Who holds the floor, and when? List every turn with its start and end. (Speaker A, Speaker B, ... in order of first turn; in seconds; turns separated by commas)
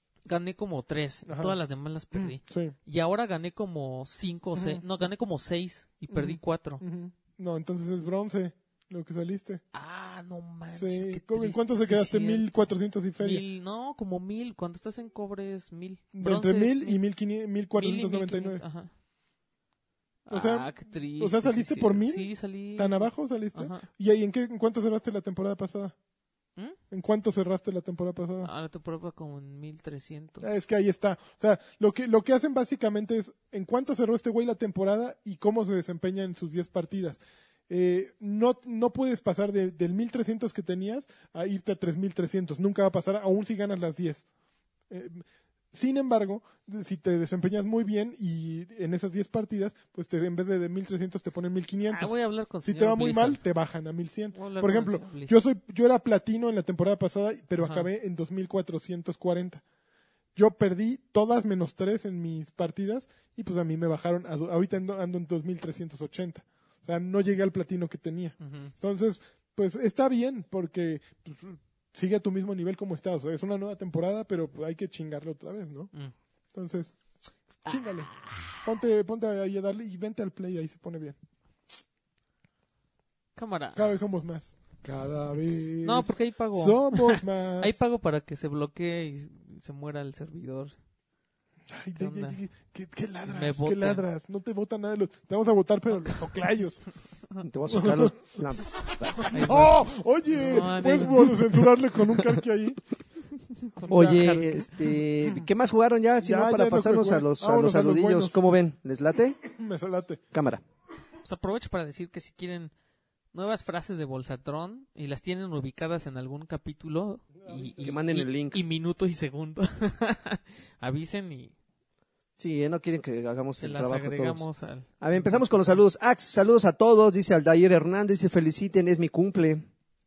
Speaker A: 0.2-6.8, Speaker B: 1.3-1.6, Speaker B: 2.1-2.7, Speaker B: 4.5-4.8, Speaker B: 6.1-9.6, Speaker A: 9.7-12.5, Speaker B: 10.7-13.4, Speaker A: 13.2-17.0, Speaker B: 16.1-18.6, Speaker A: 17.8-18.9, Speaker A: 20.3-23.8, Speaker B: 20.3-25.9, Speaker B: 26.9-28.5, Speaker A: 28.4-30.6, Speaker B: 30.4-44.2, Speaker B: 44.9-59.6, Speaker A: 51.9-53.4, Speaker A: 54.3-55.4, Speaker A: 57.6-57.9, Speaker B: 60.4-75.9, Speaker A: 68.4-68.7, Speaker B: 76.5-76.9, Speaker B: 77.6-81.2, Speaker A: 77.7-78.6, Speaker A: 83.3-83.9, Speaker B: 83.8-87.8, Speaker A: 85.8-90.8, Speaker B: 91.7-96.8, Speaker A: 92.0-92.4, Speaker A: 93.2-94.0, Speaker A: 96.0-96.4, Speaker C: 97.4-99.3, Speaker B: 97.7-98.3, Speaker B: 99.2-102.8, Speaker A: 99.3-101.4, Speaker A: 103.7-104.8, Speaker C: 103.9-109.4, Speaker B: 106.2-108.4, Speaker B: 109.5-110.2, Speaker C: 110.3-110.6, Speaker A: 111.2-112.7, Speaker A: 113.3-121.5, Speaker C: 117.8-118.6, Speaker C: 122.4-124.4, Speaker A: 123.6-125.8, Speaker C: 125.0-129.6